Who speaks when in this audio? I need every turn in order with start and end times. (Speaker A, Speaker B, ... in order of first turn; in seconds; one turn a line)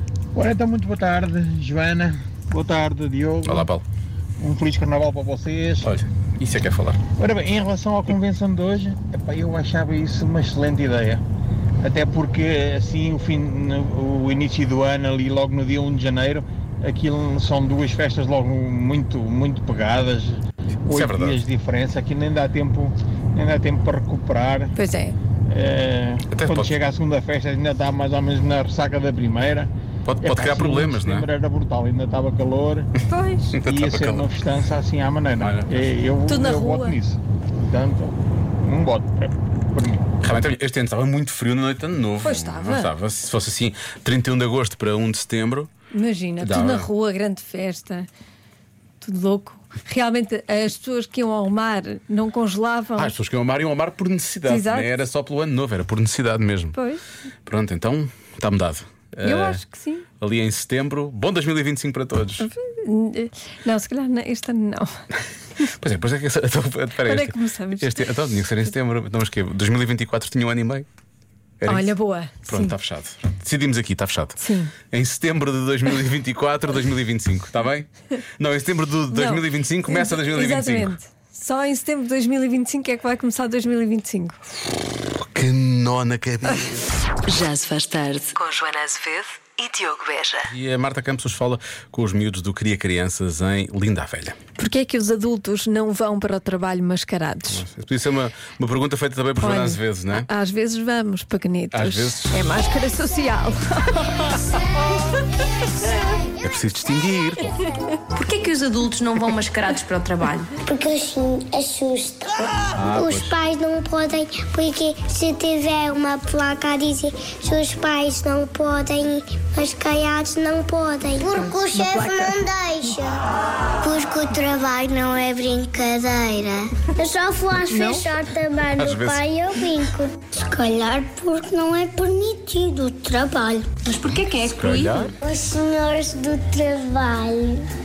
Speaker A: 0.3-3.7
Speaker B: 3.4-3.8
Speaker A: 4.4-5.9
Speaker B: 5.8-7.0
Speaker A: 7.2-11.2
Speaker A: 11.8-24.7
Speaker B: 20.9-21.4
Speaker C: 24.8-25.2
Speaker A: 25.5-29.7
Speaker B: 26.3-26.7
Speaker B: 30.1-31.2
Speaker A: 30.2-32.9
Speaker C: 33.0-33.5
Speaker B: 33.5-34.2
Speaker A: 33.6-40.0
Speaker B: 35.4-35.9
Speaker C: 36.2-37.0
Speaker B: 40.2-45.7
Speaker C: 42.2-42.9
Speaker C: 45.9-48.1
Speaker B: 46.4-46.9
Speaker C: 49.0-53.1
Speaker B: 53.0-56.8
Speaker C: 54.5-54.9
Speaker C: 56.7-57.0
Speaker B: 57.5-59.6
Speaker C: 59.2-60.1
Speaker B: 60.2-62.5
Speaker C: 62.4-64.9
Speaker B: 65.6-70.8
Speaker C: 67.0-68.1
Speaker B: 71.6-71.9
Speaker C: 71.7-72.8
Speaker B: 72.5-74.4
Speaker C: 74.4-74.8
Speaker B: 74.9-81.0
Speaker C: 79.1-84.4
Speaker B: 85.1-87.0
Speaker D: 87.3-90.5
Speaker B: 90.5-94.4
Speaker C: 94.6-97.6
Speaker B: 97.5-100.3
Speaker C: 99.4-104.6
Speaker B: 101.7-102.5
Speaker B: 106.4-107.5
Speaker E: 108.1-110.5
Speaker F: 110.7-123.2
Speaker B: 112.7-113.4
Speaker C: 121.2-122.5
Speaker F: 123.8-133.7
Speaker C: 127.7-128.1
Speaker B: 128.7-129.3
Speaker E: 133.8-135.1
Speaker B: 134.4-135.1
Speaker F: 135.2-137.7